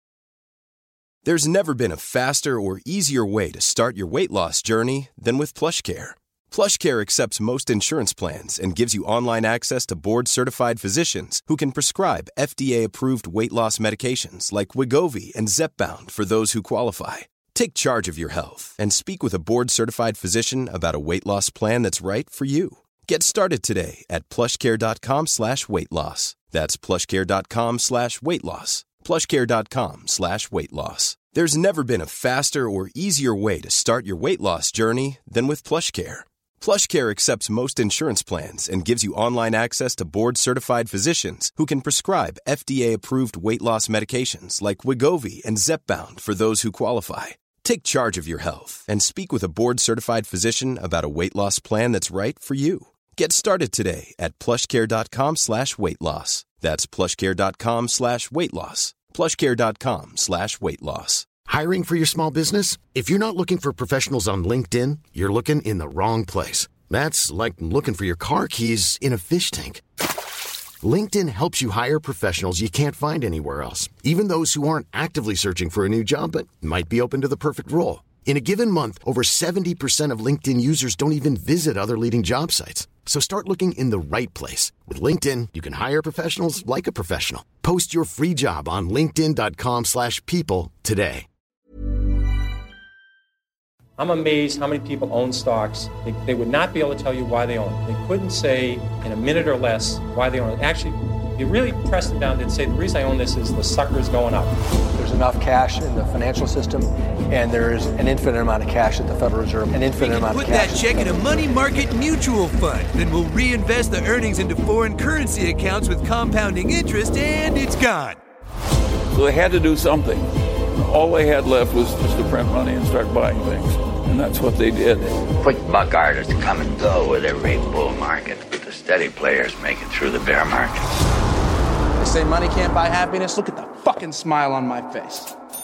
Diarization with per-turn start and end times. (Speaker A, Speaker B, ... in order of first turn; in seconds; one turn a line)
Speaker A: 1.2-61.3
Speaker B: 61.5-69.8
Speaker B: 70.8-91.3
Speaker C: 94.0-104.5
Speaker D: 105.0-111.7
Speaker E: 110.0-118.2
Speaker F: 119.1-125.2
Speaker G: 125.4-130.8
Speaker H: 132.0-135.3